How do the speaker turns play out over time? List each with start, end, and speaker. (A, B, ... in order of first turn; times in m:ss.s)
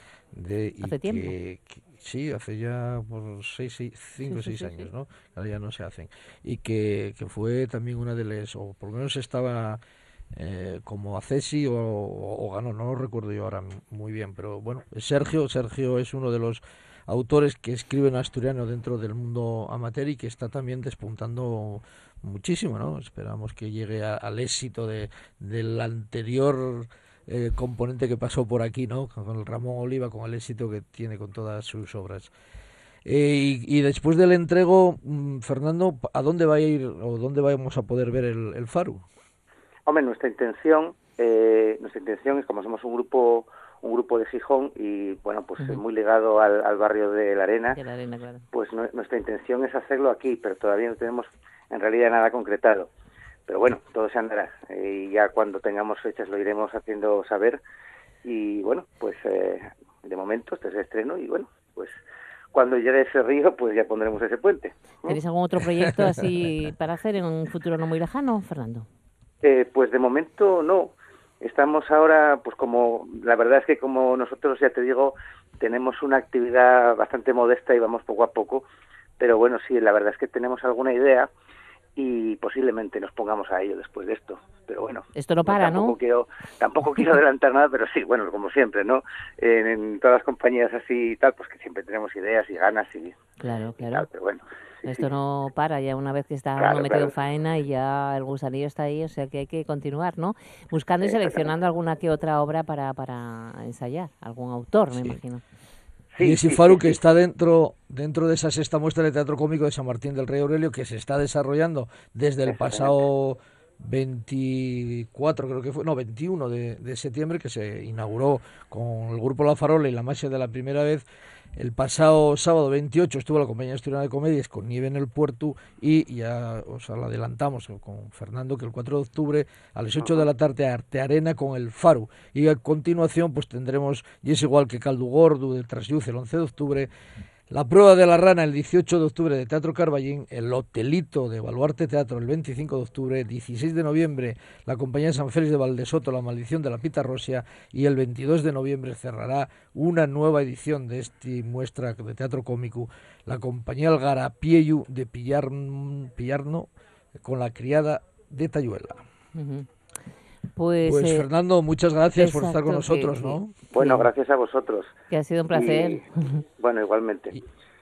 0:00.3-0:09.8 A
0:00.8-0:01.3 B
0:04.3-0:04.9 B
0:10.3-0:32.3 A
0:33.0-0:39.0 A
0:39.8-0:47.8 C
0:47.7-0:48.4 B
0:48.5-0:52.9 C
0:53.5-0:57.6 C
0:58.2-1:01.9 C
1:02.5-1:05.2 C
1:05.0-1:08.9 B
1:09.4-1:18.6 C
1:19.2-1:21.3 C
1:22.0-1:33.2 C
1:25.2-1:26.0 B
1:33.4-1:34.1 B
1:33.8-1:35.0 C
1:34.8-1:45.4 B
1:36.6-1:37.1 C
1:44.9-1:45.2 A
1:46.2-1:47.0 C
1:46.2-2:01.0 A
1:52.5-1:52.9 C
2:01.6-2:16.9 A
2:17.5-2:39.0 A
2:39.3-2:39.7 B
2:40.6-2:41.3 B
2:40.8-2:43.5 A
2:42.2-2:44.1 B
2:43.7-2:44.9 C
2:45.1-2:46.4 B
2:45.5-2:46.0 C
2:46.6-2:47.3 C